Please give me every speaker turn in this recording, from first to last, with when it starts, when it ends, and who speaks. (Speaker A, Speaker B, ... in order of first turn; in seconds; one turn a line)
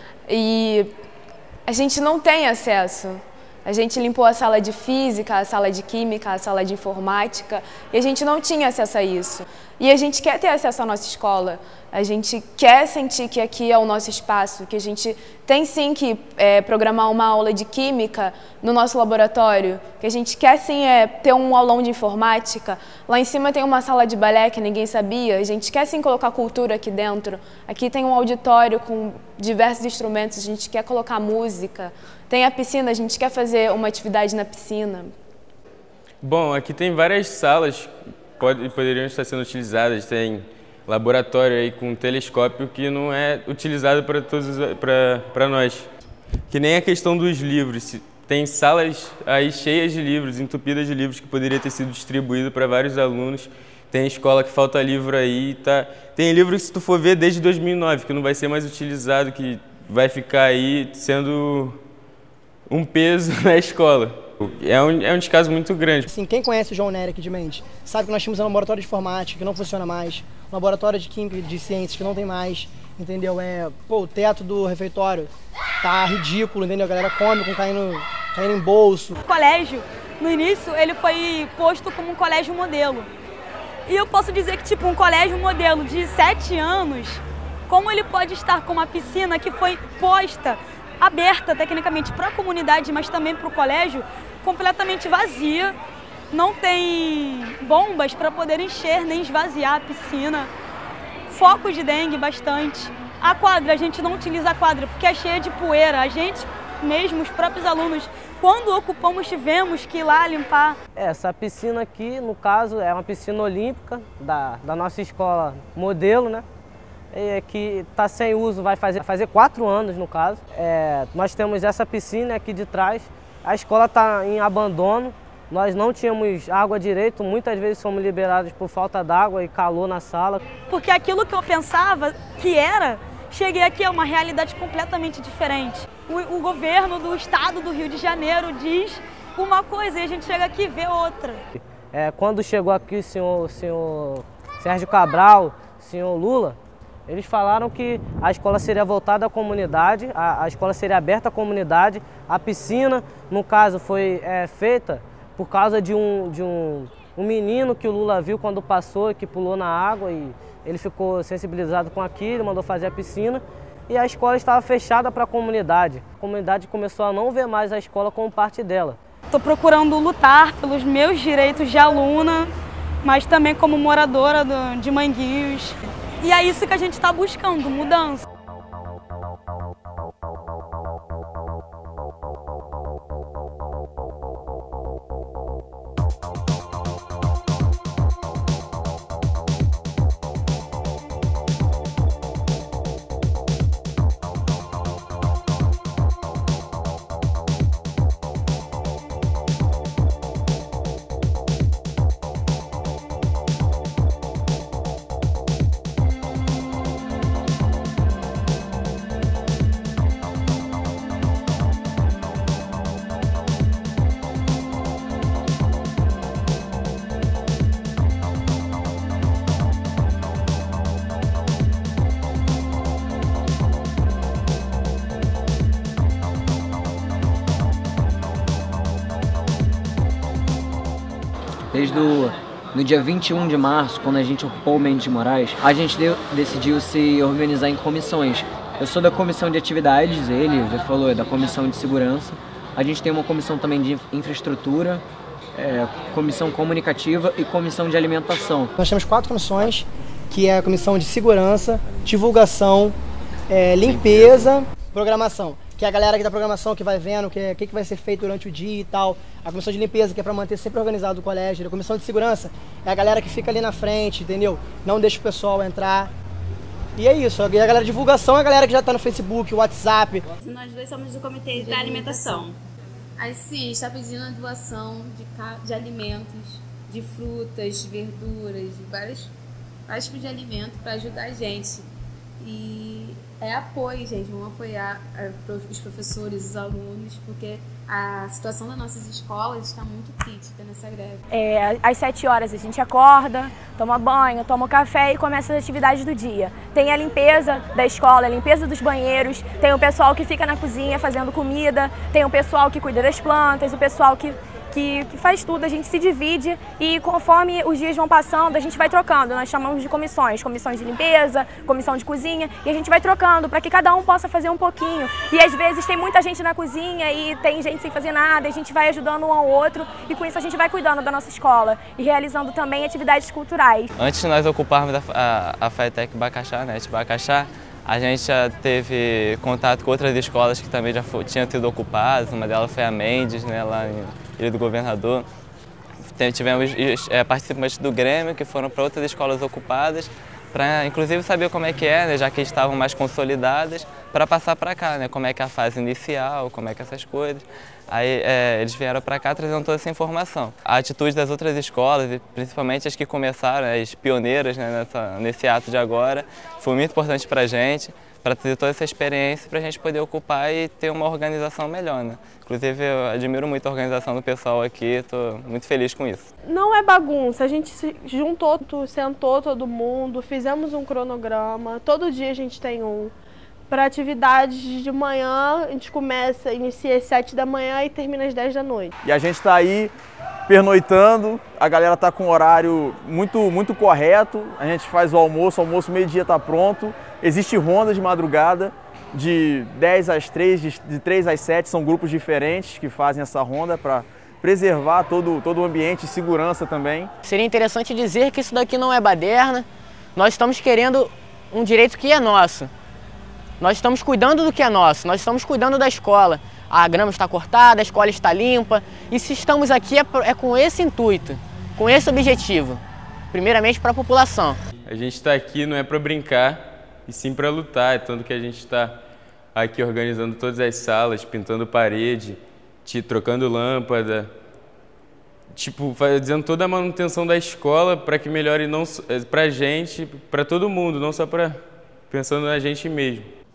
Speaker A: 0.3-0.9
Speaker A: 1.7-35.1
Speaker B: 36.2-45.9
Speaker B: 46.5-61.8
Speaker B: 62.7-66.1
Speaker C: 66.1-75.3
Speaker C: 75.8-79.2
Speaker D: 79.2-83.1
Speaker D: 83.9-95.8
Speaker D: 96.3-100.5
Speaker D: 101.3-110.8
Speaker E: 110.9-116.4
Speaker E: 117.1-130.5
Speaker D: 130.6-141.4
Speaker E: 141.5-169.0
Speaker D: 169.3-172.5
Speaker D: 173.0-178.2
Speaker F: 231.7-245.0
Speaker F: 245.6-248.7
Speaker C: 248.8-252.9
Speaker C: 253.5-266.1
Speaker C: 267.0-270.2
Speaker G: 270.7-272.5
Speaker G: 273.2-279.2
Speaker G: 279.9-281.8
Speaker G: 282.5-283.3
Speaker G: 284.6-285.3
Speaker H: 291.3-323.9
Speaker I: 324.0-335.3
Speaker I: 336.1-366.3
Speaker J: 366.4-373.1
Speaker J: 373.7-378.9
Speaker K: 379.0-379.9
Speaker K: 380.5-397.1
Speaker L: 397.2-402.7
Speaker L: 403.6-412.8
Speaker L: 413.3-414.6
Speaker B: 414.9-419.0
Speaker B: 419.5-424.3
Speaker B: 425.5-433.3